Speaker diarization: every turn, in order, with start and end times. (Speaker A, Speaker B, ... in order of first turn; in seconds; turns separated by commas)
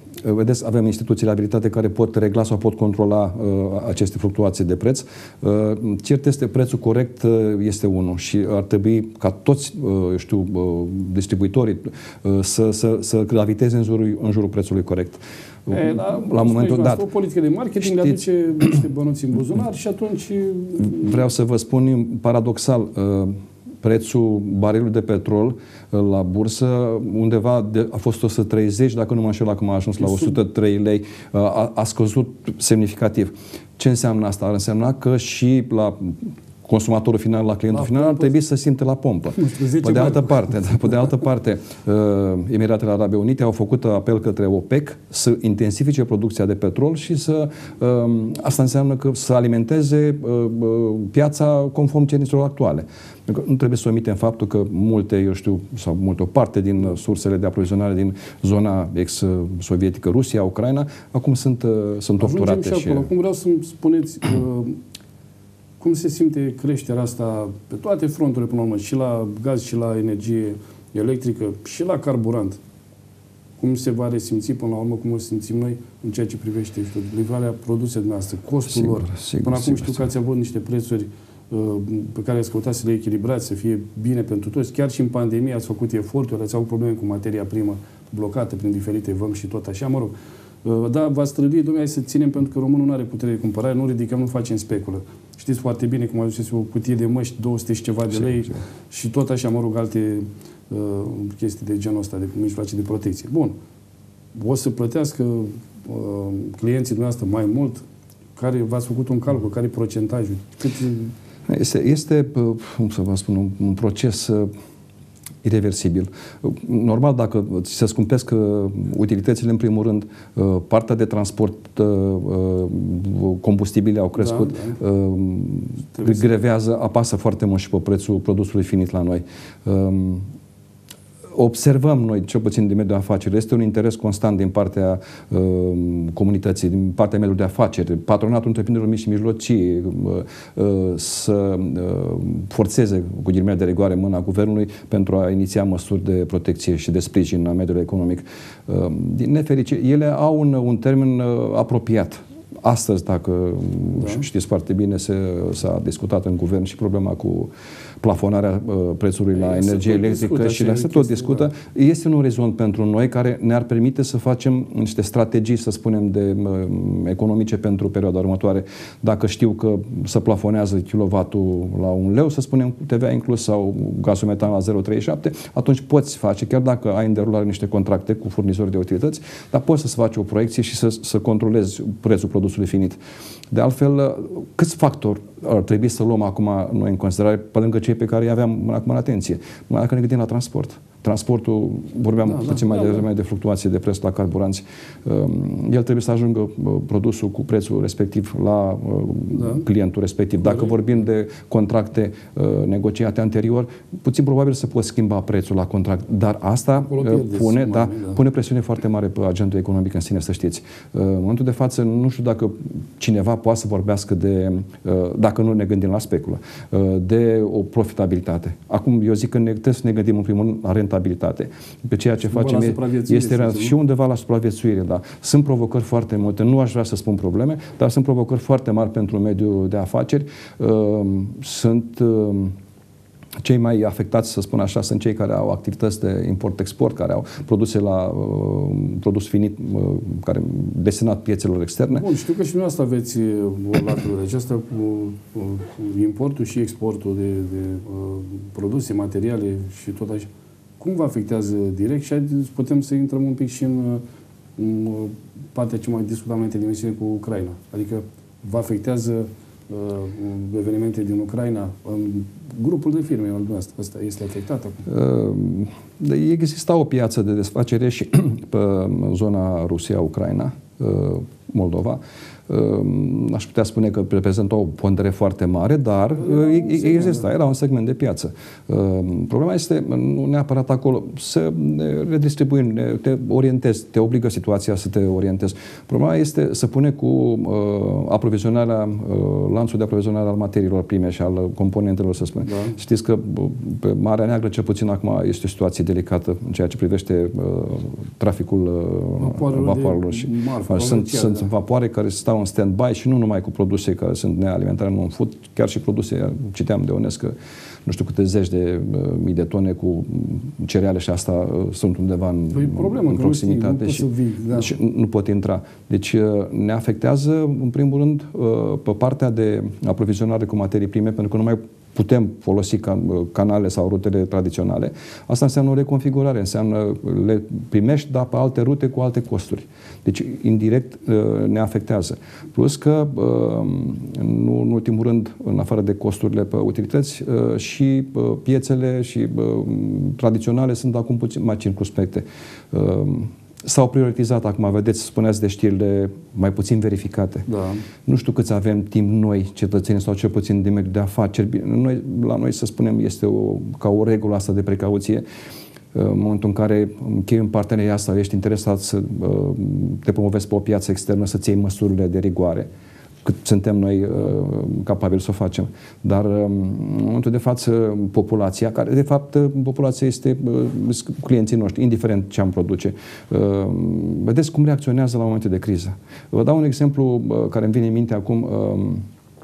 Speaker A: 0.2-17.0, Speaker B: 15.7-21.2, Speaker A: 17.8-18.2, Speaker A: 20.8-63.1, Speaker B: 37.7-38.3, Speaker B: 39.4-40.6, Speaker B: 62.2-64.8, Speaker B: 65.8-72.6, Speaker B: 73.6-90.1, Speaker A: 78.7-80.0, Speaker B: 90.6-103.5, Speaker B: 104.3-107.8, Speaker B: 108.4-111.1, Speaker A: 111.5-114.5, Speaker A: 115.4-130.3, Speaker B: 124.2-124.8, Speaker B: 126.0-126.2, Speaker A: 131.3-157.5, Speaker B: 154.0-154.2, Speaker A: 158.0-183.0, Speaker B: 159.3-161.5, Speaker A: 183.5-232.6, Speaker B: 192.2-193.1, Speaker B: 199.3-199.7, Speaker B: 200.4-200.8, Speaker B: 206.8-208.2, Speaker B: 222.2-223.7, Speaker A: 233.4-242.1, Speaker B: 241.9-254.0, Speaker B: 254.6-264.9, Speaker A: 264.9-307.3, Speaker B: 276.2-277.2, Speaker B: 292.4-292.8, Speaker B: 299.2-301.5, Speaker A: 307.9-347.5, Speaker B: 312.5-314.8, Speaker B: 347.5-347.8, Speaker A: 348.1-355.2, Speaker A: 355.9-362.7, Speaker A: 363.2-379.1